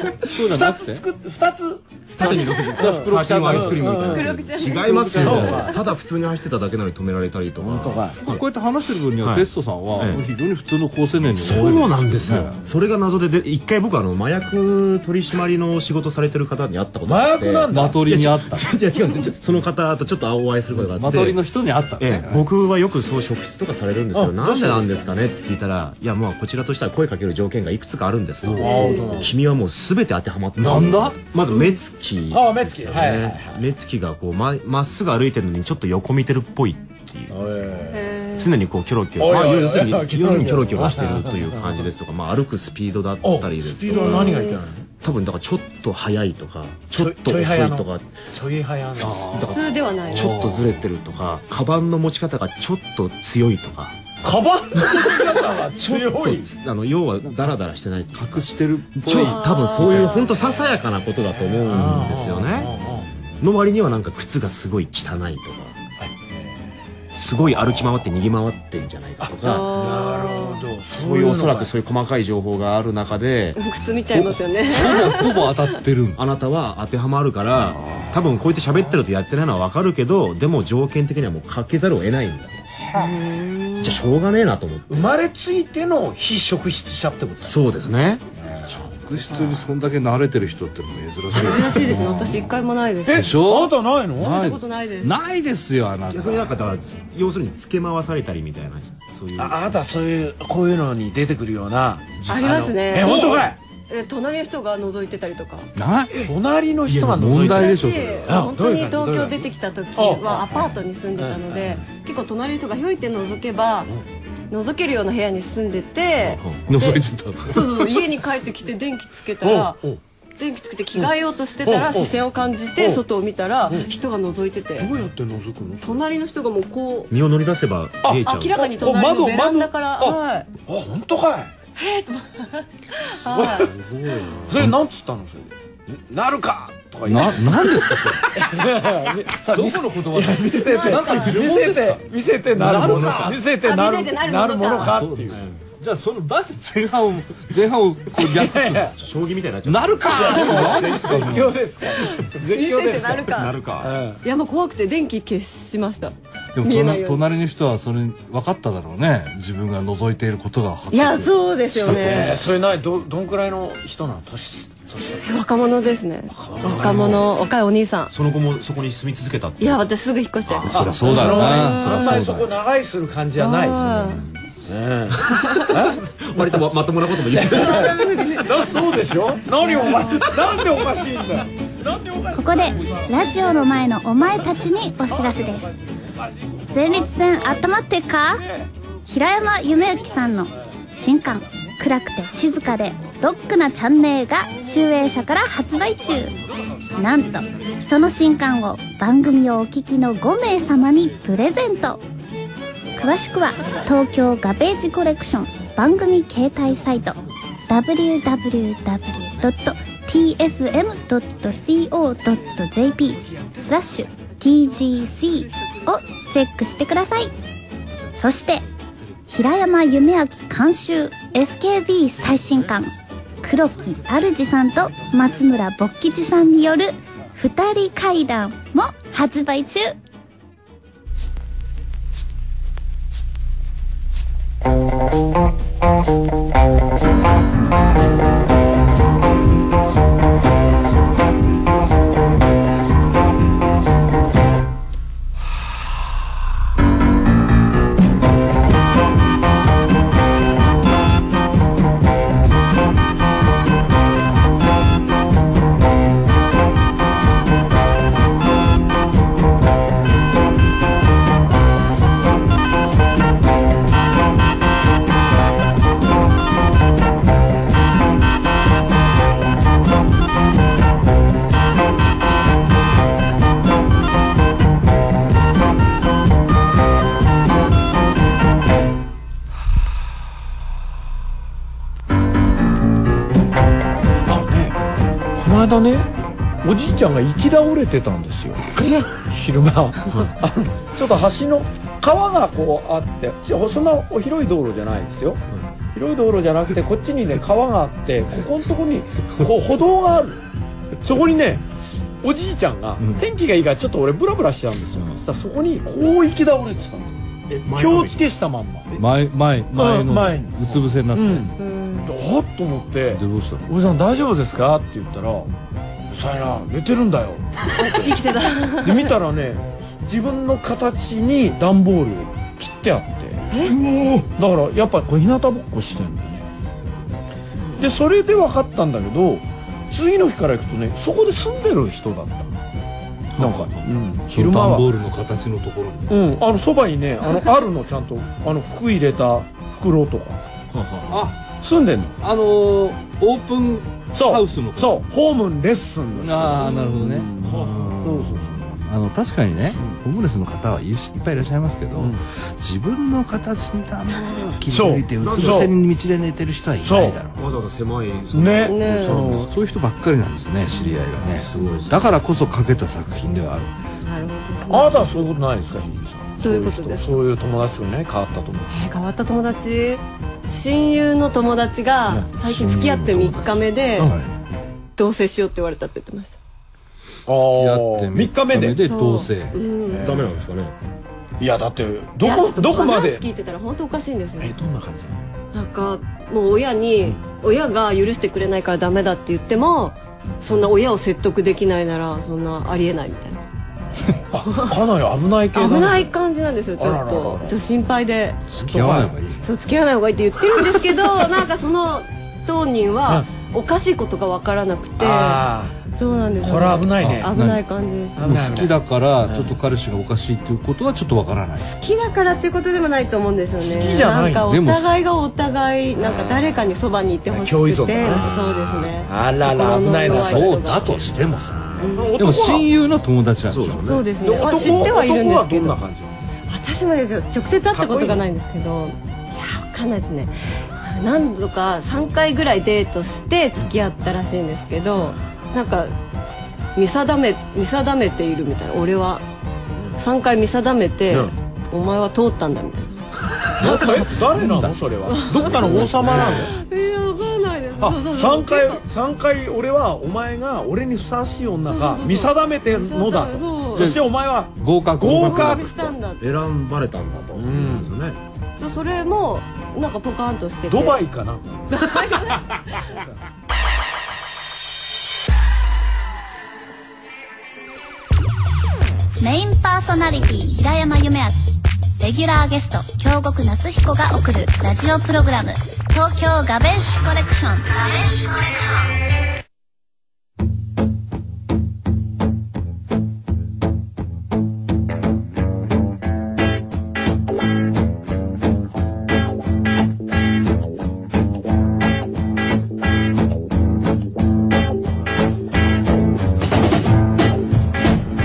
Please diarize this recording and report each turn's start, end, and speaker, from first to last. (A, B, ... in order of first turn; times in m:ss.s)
0:00.2-0:01.0 A
0:00.2-0:04.3 B
0:02.1-0:08.4 C
0:03.0-0:03.8 A
0:03.9-0:05.6 D
0:04.9-0:05.7 A
0:05.1-0:05.8 B
0:07.6-0:08.2 B
0:08.2-0:12.6 A
0:09.2-0:10.2 C
0:11.3-0:21.4 C
0:17.0-0:18.1 B
0:17.7-0:18.7 A
0:20.7-0:22.5 A
0:22.0-0:37.3 C
0:24.1-0:25.1 B
0:28.4-0:28.8 A
0:28.6-0:29.3 B
0:28.6-0:29.2 D
0:30.6-0:31.2 A
0:30.6-0:31.0 B
0:32.3-0:33.6 B
0:37.3-0:38.1 B
0:37.9-0:38.5 D
0:38.4-0:44.4 C
0:39.2-0:41.9 B
0:43.2-0:44.9 B
0:43.9-0:44.6 D
0:45.0-0:48.1 C
0:46.9-0:49.4 B
0:49.0-0:50.8 A
0:49.0-0:54.0 C
0:49.5-0:50.3 D
0:54.2-0:56.5 B
0:54.8-0:58.5 C
0:57.3-0:57.6 A
0:58.1-0:59.5 A
0:59.0-1:02.8 C
0:59.1-1:00.5 D
1:01.3-1:03.1 B
1:03.4-1:05.8 C
1:06.0-1:06.6 B
1:07.2-1:09.7 C
1:09.2-1:11.7 B
1:09.4-1:10.7 D
1:10.9-1:13.7 C
1:13.6-1:15.7 D
1:14.1-1:16.2 A
1:16.2-1:22.6 C
1:17.7-1:18.2 A
1:22.8-1:23.4 B
1:22.9-1:24.0 D
1:23.8-1:25.1 C
1:24.9-1:27.6 B
1:27.4-1:28.2 C
1:28.4-1:28.8 B
1:28.7-1:32.5 A
1:31.3-1:33.3 D
1:33.0-1:34.4 B
1:33.1-1:36.6 A
1:34.2-1:35.1 D
1:36.1-1:39.7 C
1:39.4-1:43.6 B
1:42.2-1:43.2 C
1:42.3-1:45.7 D
1:45.8-1:46.3 A
1:46.1-1:51.8 B
1:46.9-1:48.3 A
1:47.4-1:53.9 D
1:54.5-1:59.8 D
1:56.2-1:56.6 C
1:56.7-1:58.0 A
1:59.4-2:00.0 B
2:00.4-2:04.9 D
2:01.6-2:02.2 B
2:02.8-2:03.0 B
2:04.8-2:06.0 B
2:05.8-2:07.1 D
2:07.1-2:08.6 C
2:08.0-2:11.5 B
2:08.2-2:10.5 D
2:11.8-2:13.7 D
2:13.3-2:13.7 B
2:13.5-2:14.8 A
2:14.5-2:25.4 B
2:17.0-2:18.4 A
2:19.4-2:23.4 A
2:20.7-2:21.4 D
2:22.7-2:23.2 C
2:23.6-2:25.0 D
2:24.8-2:29.0 A
2:25.3-2:25.6 C
2:28.3-2:28.9 B
2:29.0-2:31.5 C
2:29.6-2:31.6 A
2:30.0-2:34.2 B
2:32.0-2:33.5 D
2:33.2-2:34.0 C
2:34.2-2:37.2 D
2:36.5-2:42.2 A
2:40.9-2:42.4 D
2:41.8-2:45.3 B
2:45.2-2:48.1 D
2:46.3-2:47.2 B
2:46.7-2:47.2 C
2:48.1-2:49.8 C
2:49.6-2:52.2 D
2:50.4-2:50.8 C
2:50.6-2:52.5 A
2:50.7-2:56.6 B
2:53.4-2:54.2 D
2:55.1-2:58.1 C
2:57.2-3:03.5 B
2:57.4-2:58.9 D
2:59.8-3:00.3 D
3:02.3-3:05.7 E
3:05.0-3:07.5 B
3:06.7-3:08.4 E
3:08.3-3:08.7 B
3:09.1-3:16.3 E
3:17.0-3:22.0 E
3:23.0-3:37.3 E
3:33.1-3:34.1 B
3:35.4-3:35.9 D
3:38.1-3:38.6 E
3:39.3-3:49.9 E
4:44.2-4:44.8 B
4:45.4-4:46.1 B
4:46.6-4:55.4 B
4:48.8-4:49.1 D
4:55.9-5:00.4 B
5:01.0-5:01.6 B
5:02.2-5:07.1 B
5:07.5-5:08.2 C
5:07.7-5:09.0 B
5:08.9-5:11.5 A
5:09.7-5:15.5 B
5:11.6-5:12.1 D
5:13.1-5:13.7 A
5:16.1-5:18.2 B
5:17.8-5:19.1 D
5:18.8-5:26.5 B
5:23.5-5:23.8 D
5:27.8-5:32.5 B
5:33.4-5:34.9 B
5:33.4-5:33.7 A
5:34.3-5:36.2 A
5:36.1-5:40.4 B
5:40.7-5:41.2 C
5:41.1-5:41.4 A
5:41.6-5:42.2 B
5:42.2-5:45.0 A
5:44.1-5:48.8 B
5:46.2-5:57.4 A
5:46.7-5:47.1 D
5:54.7-5:55.7 B
5:55.2-5:55.7 C
5:56.8-5:57.2 B
5:57.4-5:59.5 C
5:58.3-5:59.5 B
5:58.7-5:59.2 D
5:59.3-6:03.7 A
6:01.2-6:02.0 C
6:04.0-6:05.1 D
6:04.7-6:08.7 B
6:06.4-6:07.2 D
6:08.7-6:14.1 D
6:12.4-6:14.3 A
6:15.0-6:16.4 D
6:17.2-6:18.8 B
6:17.4-6:19.6 A
6:18.8-6:20.2 D
6:19.8-6:20.4 B
6:20.0-6:20.7 C
6:21.4-6:23.2 B
6:22.2-6:24.5 D
6:24.4-6:25.2 B
6:25.5-6:33.4 D
6:34.3-6:36.1 B
6:34.5-6:34.8 D
6:35.5-6:38.4 D
6:36.8-6:37.6 B
6:38.5-6:39.5 A
6:38.6-6:39.1 B
6:39.4-6:48.3 D
6:45.0-6:45.8 B
6:46.4-6:47.3 B
6:47.0-6:47.6 A
6:48.2-6:49.5 B
6:48.2-6:51.6 A
6:51.6-7:01.0 D
6:53.6-6:54.5 B
6:54.4-6:55.0 A
6:56.0-6:56.6 B
6:57.3-6:58.2 B
6:58.4-6:58.7 C
6:59.0-7:00.7 B
7:00.0-7:04.0 A
7:01.8-7:02.7 B
7:01.8-7:02.1 D
7:03.5-7:04.0 C
7:03.8-7:05.8 D
7:04.2-7:06.2 B
7:06.5-7:15.9 D
7:07.7-7:08.2 B
7:16.8-7:19.2 D
7:20.0-7:23.0 D
7:21.1-7:21.3 B
7:23.4-7:26.5 B
7:23.6-7:24.0 D
7:24.2-7:24.8 A
7:25.1-7:28.8 D
7:25.5-7:26.3 A
7:27.8-7:35.9 B
7:31.6-7:34.0 D
7:33.7-7:35.6 A
7:35.2-7:36.2 D
7:36.2-7:38.2 C
7:37.3-7:37.9 B
7:38.6-7:41.0 D
7:40.7-7:42.0 B
7:41.7-7:43.0 D
7:49.2-7:58.8 E